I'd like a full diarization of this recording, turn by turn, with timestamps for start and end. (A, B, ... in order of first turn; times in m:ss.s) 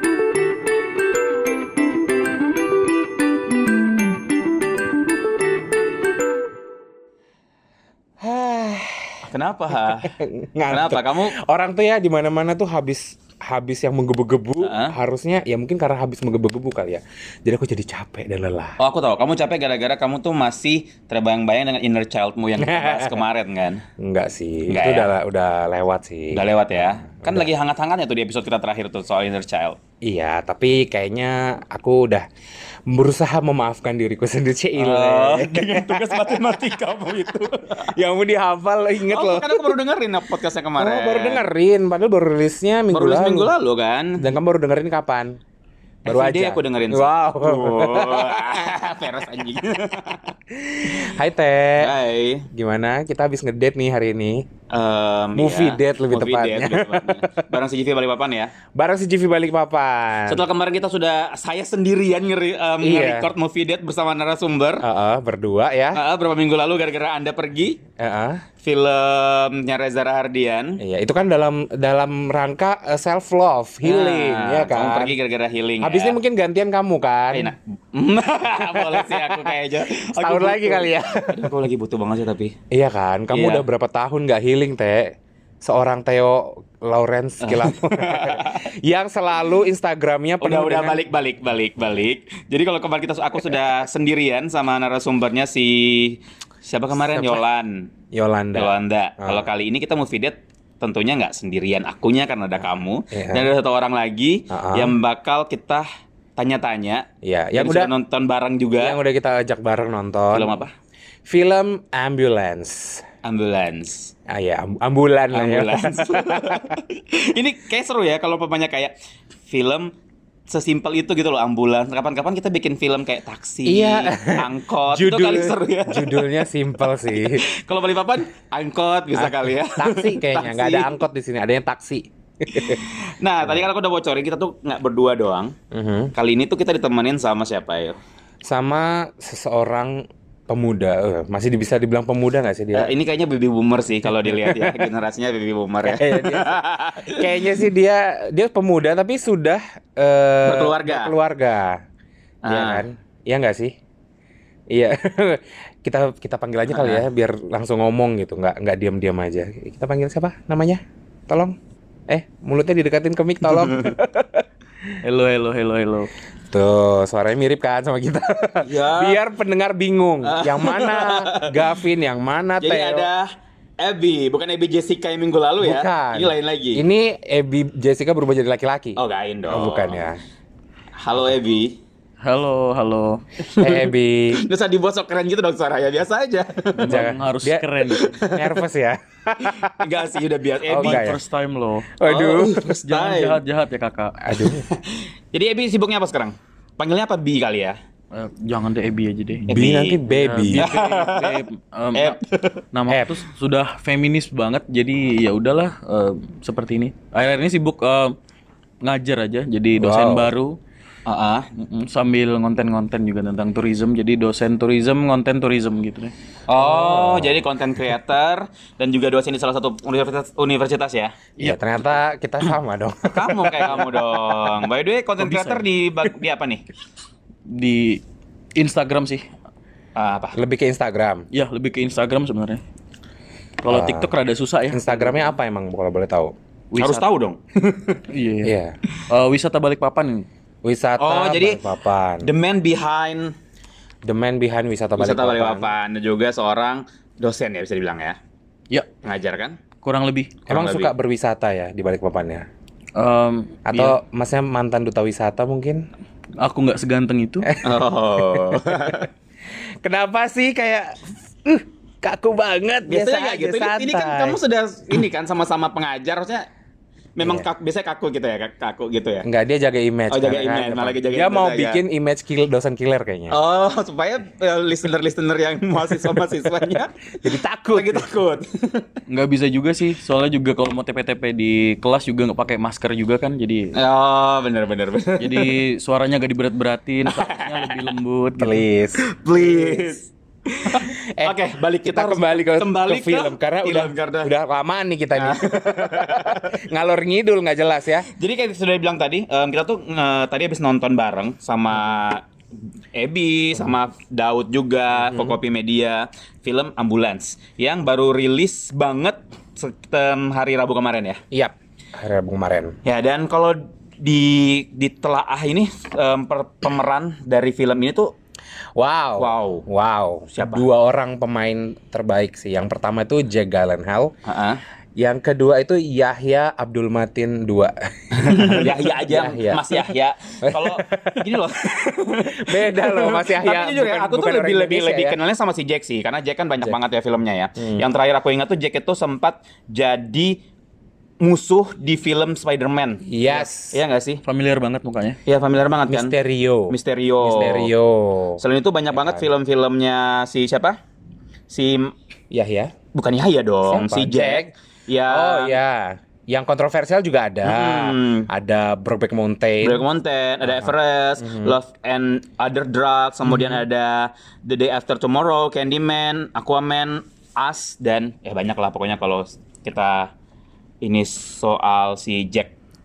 0:08.2-0:09.3 A
0:09.3-0:10.1 B
0:10.0-0:18.8 A
0:10.7-0:11.4 B
0:14.6-0:15.0 B
0:18.8-0:23.8 B
0:22.6-0:23.2 A
0:24.0-0:27.5 A
0:24.7-0:25.1 B
0:26.3-0:29.8 B
0:30.0-0:32.3 A
0:32.9-0:36.6 A
0:34.8-0:37.9 B
0:37.8-0:39.8 A
0:39.0-0:41.4 B
0:40.8-0:43.5 A
0:42.9-0:44.3 B
0:44.2-0:45.4 A
0:46.0-0:48.8 A
0:46.0-0:50.3 B
0:50.5-0:52.0 A
0:50.9-0:51.1 B
0:51.8-0:52.5 B
0:52.5-0:54.5 A
0:54.7-0:58.5 B
0:55.4-0:57.4 A
0:58.7-1:00.4 A
1:00.3-1:04.8 B
1:02.8-1:03.3 A
1:04.8-1:06.0 A
1:05.9-1:07.8 B
1:08.0-1:08.4 A
1:08.6-1:10.8 B
1:10.8-1:15.2 A
1:13.8-1:16.2 B
1:15.8-1:17.5 A
1:17.3-1:22.6 B
1:18.6-1:21.5 A
1:22.7-1:31.0 A
1:23.3-1:23.6 B
1:27.4-1:28.7 B
1:30.4-1:37.9 B
1:37.0-1:37.4 A
1:38.1-1:39.5 A
1:38.6-1:49.0 B
1:43.1-1:43.5 A
1:44.5-1:45.0 A
1:47.2-1:47.9 A
1:48.8-1:50.5 A
1:50.3-1:50.7 B
1:51.3-1:53.1 A
1:53.2-1:54.1 B
1:54.3-1:56.8 A
1:55.3-1:58.9 B
1:59.5-1:59.9 B
2:00.5-2:06.4 B
2:03.7-2:07.5 A
2:07.2-2:10.9 B
2:09.2-2:12.8 A
2:12.5-2:15.6 B
2:15.7-2:16.1 A
2:16.2-2:18.0 B
2:18.4-2:22.9 A
2:22.7-2:27.6 B
2:24.1-2:24.9 A
2:25.8-2:31.8 A
2:30.4-2:31.1 B
2:32.4-2:32.8 B
2:32.5-2:33.8 A
2:34.7-2:41.6 A
2:36.7-2:37.1 B
2:42.1-2:44.4 A
2:43.5-2:43.9 B
2:45.0-2:46.1 C
2:46.5-2:53.1 A
2:48.6-2:49.2 B
2:50.2-2:51.8 B
2:52.6-2:56.8 B
2:55.6-3:00.2 A
2:59.0-3:00.0 B
3:01.0-3:01.8 B
3:02.2-3:03.2 C
3:03.4-3:06.9 B
3:03.6-3:04.5 A
3:06.8-3:08.2 C
3:06.9-3:07.7 A
3:07.9-3:08.6 B
3:08.2-3:09.9 A
3:09.6-3:11.1 B
3:10.7-3:11.2 A
3:10.8-3:12.0 C
3:12.0-3:12.8 A
3:12.0-3:13.4 B
3:12.8-3:14.2 C
3:14.2-3:14.7 A
3:14.6-3:17.8 B
3:18.1-3:19.4 C
3:19.5-3:20.0 B
3:19.5-3:20.7 A
3:20.1-3:22.2 C
3:20.5-3:21.4 B
3:22.0-3:22.6 B
3:22.7-3:28.2 C
3:22.9-3:23.2 A
3:28.8-3:30.6 C
3:29.8-3:30.3 A
3:31.1-3:31.5 B
3:31.6-3:36.1 C
3:36.5-3:41.2 B
3:36.6-3:37.4 A
3:41.4-3:44.0 A
3:43.1-3:46.6 B
3:45.2-3:45.6 C
3:47.5-3:48.0 C
3:48.6-3:49.2 C
3:50.0-3:50.4 B
3:50.3-3:51.3 A
3:51.3-3:52.6 C
3:53.6-3:55.1 C
3:53.7-3:54.1 A
3:54.7-3:56.3 A
3:56.7-3:57.0 C
3:56.8-3:58.0 B
3:58.1-3:58.6 C
3:58.4-3:58.8 A
3:59.1-4:00.3 C
4:00.6-4:02.3 A
4:01.0-4:01.6 B
4:02.2-4:03.3 B
4:04.0-4:05.7 A
4:05.0-4:08.2 B
4:09.0-4:09.6 B
4:09.8-4:10.3 C
4:10.5-4:10.9 B
4:10.5-4:12.5 A
4:13.0-4:14.0 C
4:13.7-4:15.9 A
4:16.4-4:17.5 C
4:17.5-4:19.1 A
4:17.6-4:19.1 B
4:19.8-4:24.4 A
4:22.9-4:26.5 B
4:27.2-4:29.3 B
4:27.2-4:27.5 A
4:29.2-4:33.4 A
4:30.1-4:31.8 B
4:33.3-4:38.9 B
4:37.2-4:38.1 A
4:39.1-4:43.8 C
4:43.7-4:45.5 B
4:45.2-4:48.6 C
4:47.1-4:47.9 B
4:48.4-4:49.9 A
4:49.0-4:54.3 B
4:50.7-4:58.1 A
4:55.2-4:56.6 B
4:58.2-5:02.2 B
5:02.9-5:11.2 B
5:05.0-5:05.4 A
5:11.3-5:12.8 A
5:12.8-5:18.1 B
5:18.8-5:24.1 A
5:19.2-5:19.6 B
5:20.4-5:20.6 B
5:24.2-5:24.6 B
5:25.0-5:29.9 A
5:28.1-5:40.4 B
5:30.4-5:31.4 A
5:32.4-5:35.2 A
5:41.2-5:43.1 B
5:43.1-5:43.8 A
5:43.7-5:44.2 B
5:44.2-5:45.2 C
5:45.3-5:46.2 B
5:45.9-5:48.4 A
5:46.7-5:47.7 B
5:48.4-5:50.8 B
5:48.9-5:49.3 A
5:51.5-5:51.9 B
5:52.3-5:52.7 A
5:52.9-5:55.6 B
5:53.7-5:54.5 A
5:55.1-5:59.8 A
5:57.4-5:58.3 B
5:59.6-6:10.1 B
6:00.4-6:01.6 A
6:03.2-6:03.6 A
6:10.8-6:12.5 B